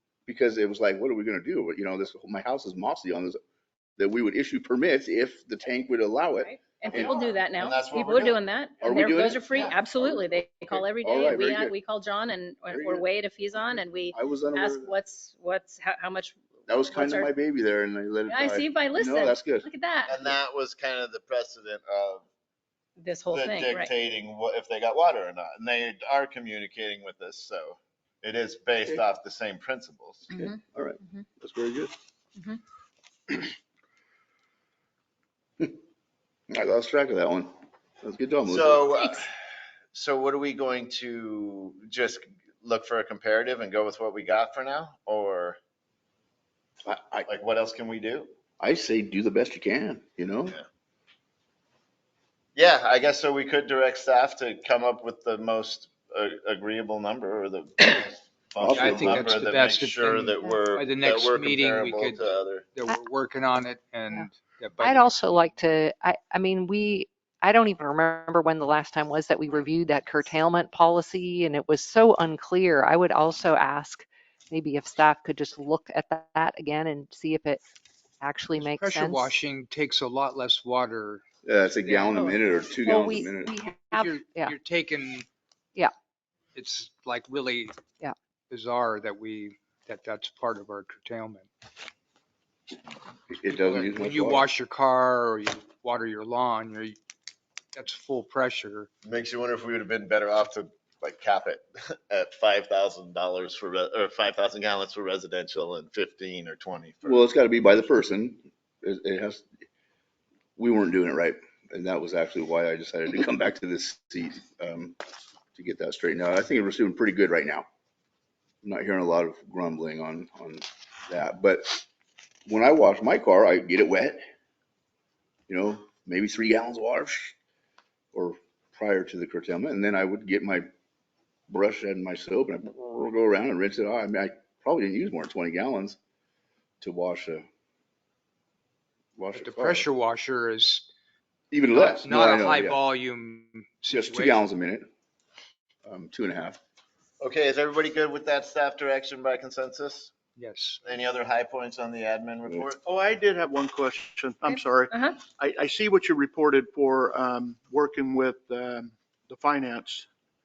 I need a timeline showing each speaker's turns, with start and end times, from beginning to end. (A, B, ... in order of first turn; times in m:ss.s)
0:00.3-0:03.4 A
0:04.0-0:07.2 A
0:06.4-0:17.3 B
0:06.9-0:08.4 C
0:08.8-0:11.7 A
0:12.7-0:13.0 A
0:14.1-0:14.9 A
0:16.7-0:19.7 A
0:18.3-0:20.2 B
0:20.1-0:22.2 C
0:23.0-0:23.9 B
0:23.3-0:30.3 C
0:30.3-0:31.2 B
0:30.3-0:31.9 A
0:36.5-0:38.8 A
0:38.4-0:39.3 C
0:39.9-0:45.6 C
0:46.8-0:47.3 A
0:47.2-0:48.3 C
0:48.6-0:50.6 A
0:52.5-1:02.6 C
0:58.6-0:59.2 A
0:58.7-1:05.4 D
1:04.8-1:17.6 E
1:18.2-1:19.3 E
1:18.6-1:21.2 D
1:21.4-1:23.6 A
1:21.8-1:22.4 D
1:22.7-1:24.6 E
1:23.9-1:25.3 D
1:26.5-1:27.8 D
1:28.5-1:31.5 D
1:33.3-1:34.5 A
1:33.4-1:37.0 D
1:37.7-1:38.9 D
1:39.0-1:47.2 C
1:47.0-1:49.4 A
1:50.6-1:55.0 A
1:55.5-1:57.6 A
1:58.6-2:01.8 A
2:02.5-2:04.2 A
2:05.5-2:07.3 A
2:08.1-2:10.7 A
2:11.5-2:16.0 A
2:16.8-2:17.4 A
2:19.2-2:19.9 A
2:19.3-2:20.8 D
2:21.5-2:22.8 A
2:21.7-2:24.4 D
2:23.9-2:24.8 A
2:25.8-2:26.6 A
2:27.2-2:30.1 C
2:30.4-2:30.8 D
2:30.8-2:32.8 C
2:32.8-2:40.1 F
2:34.5-2:35.2 B